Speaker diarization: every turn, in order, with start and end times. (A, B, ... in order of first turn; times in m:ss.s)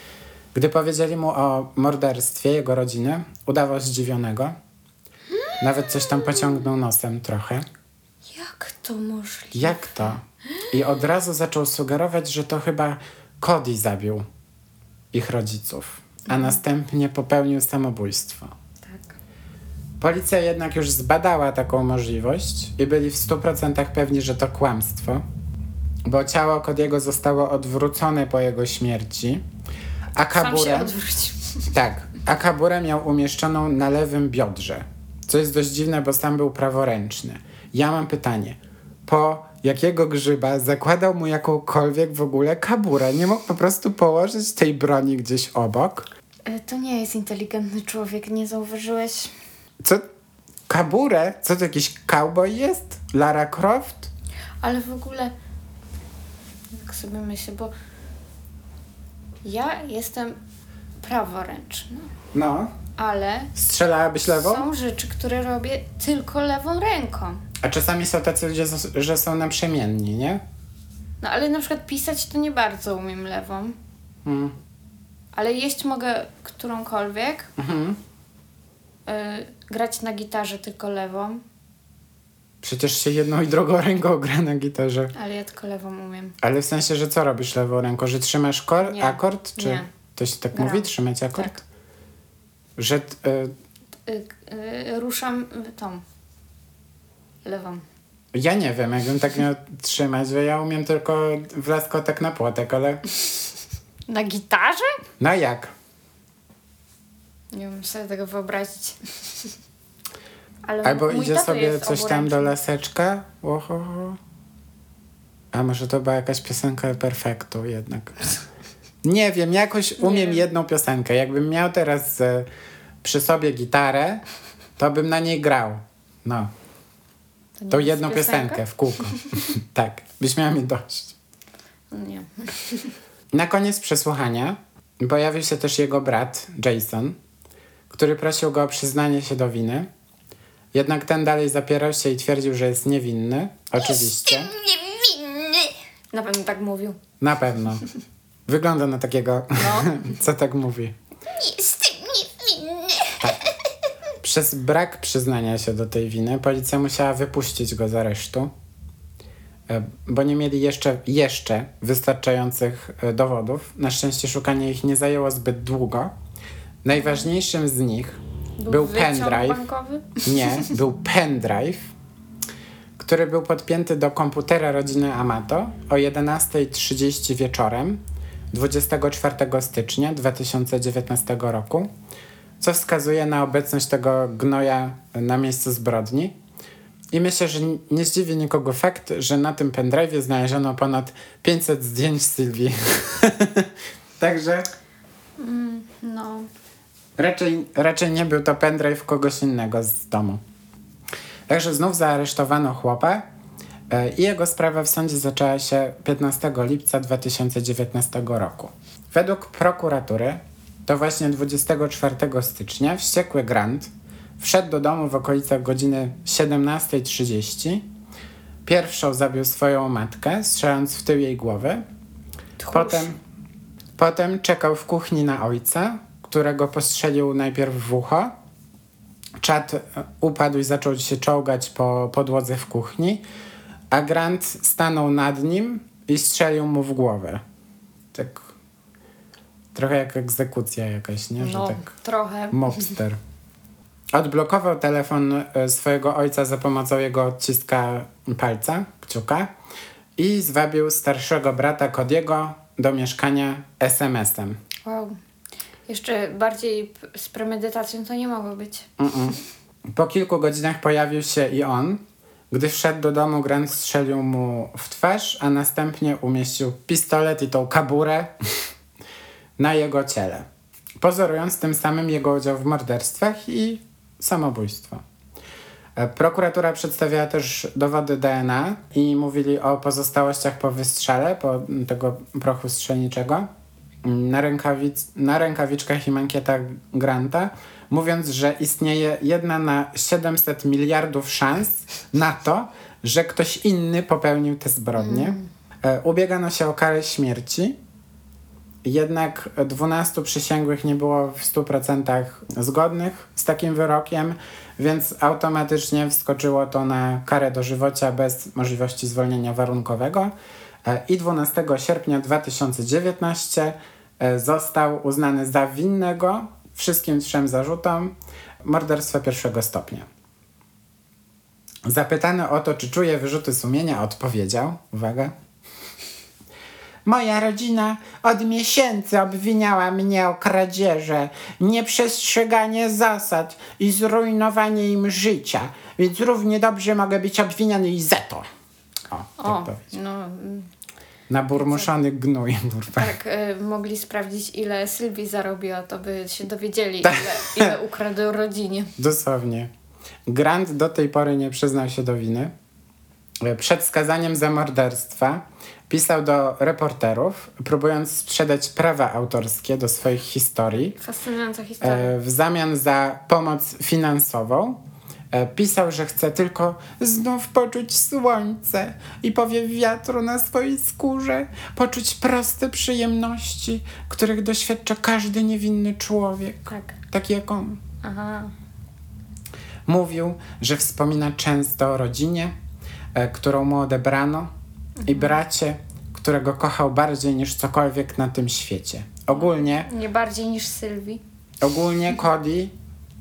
0:00.5-0:04.6 A
0:05.4-0:06.5 B
0:05.6-0:07.6 A
0:08.3-0:10.2 B
0:09.5-0:14.2 A
0:15.1-0:18.5 A
0:16.3-0:16.6 B
0:18.8-0:19.2 B
0:20.0-0:25.2 A
0:26.0-0:29.4 A
0:30.1-0:30.9 A
0:30.4-0:31.6 B
0:31.7-0:46.1 A
0:46.4-0:49.3 B
0:50.7-0:54.1 A
0:54.6-0:55.3 B
0:56.7-0:57.7 B
0:59.4-1:00.4 B
1:01.0-1:02.1 B
1:02.3-1:02.7 A
1:03.0-1:03.5 B
1:03.5-1:04.6 A
1:04.4-1:07.4 B
1:07.6-1:10.4 A
1:11.2-1:13.8 B
1:14.2-1:14.5 A
1:15.3-1:17.5 B
1:17.6-1:18.0 A
1:19.0-1:21.4 B
1:22.6-1:25.1 A
1:25.1-1:26.4 B
1:26.4-1:31.6 A
1:28.8-1:29.9 B
1:30.5-1:31.6 B
1:32.8-1:33.5 A
1:34.0-1:36.0 B
1:37.4-1:37.8 B
1:38.3-1:43.0 A
1:44.1-1:44.9 B
1:45.2-1:45.7 A
1:47.5-1:49.5 B
1:50.6-1:52.6 B
1:50.8-1:54.2 A
1:55.5-1:58.3 A
1:59.0-2:02.5 A
2:00.0-2:00.4 B
2:03.0-2:04.2 A
2:04.8-2:06.5 A
2:07.6-2:08.6 B
2:07.7-2:11.1 A
2:11.9-2:12.9 B
2:13.3-2:17.2 A
2:17.9-2:19.9 A
2:20.7-2:24.5 A
2:23.8-2:27.0 B
2:27.2-2:27.8 A
2:28.5-2:31.0 A
2:29.6-2:30.0 B
2:31.3-2:33.5 B
2:34.2-2:38.5 A
2:39.7-2:46.1 A
2:46.8-2:49.6 A
2:48.6-2:50.7 B
2:50.2-2:51.9 A
2:53.0-3:01.9 A
3:02.6-3:06.3 A
3:07.1-3:14.7 A
3:15.4-3:16.5 B
3:17.2-3:20.4 A
3:21.5-3:23.2 A
3:23.9-3:37.8 A
3:38.6-3:41.8 A
3:42.6-3:43.1 B
3:42.7-3:43.2 A
3:44.0-3:48.3 A
3:49.4-3:53.2 A
3:53.9-3:57.4 A
3:58.1-3:58.5 A
3:59.7-4:01.9 A
4:01.4-4:02.9 B
4:02.5-4:03.2 A
4:04.1-4:09.5 A
4:10.2-4:14.6 A
4:14.8-4:15.2 B
4:15.9-4:18.9 B
4:19.0-4:28.6 A
4:29.6-4:30.4 A
4:31.0-4:35.0 A
4:36.0-4:43.5 A
4:44.0-4:57.8 A
4:55.0-4:55.5 B
4:58.8-5:10.3 A
5:10.8-5:20.1 A
5:21.8-5:25.3 A
5:27.0-5:38.5 A
5:39.1-5:39.8 A
5:39.4-5:40.7 B
5:41.3-5:43.1 A
5:41.6-5:41.9 B
5:42.9-5:48.9 B
5:47.0-5:47.7 A
5:49.0-5:49.7 A
5:50.3-5:52.5 A
5:53.4-6:01.0 A
6:00.9-6:02.1 B
6:01.8-6:04.8 A
6:05.3-6:17.8 A
6:16.7-6:17.0 B
6:18.0-6:18.5 B
6:19.9-6:22.5 A
6:23.1-6:24.5 A
6:25.0-6:25.4 B
6:25.0-6:29.9 A
6:29.3-6:31.2 B
6:31.6-6:32.7 A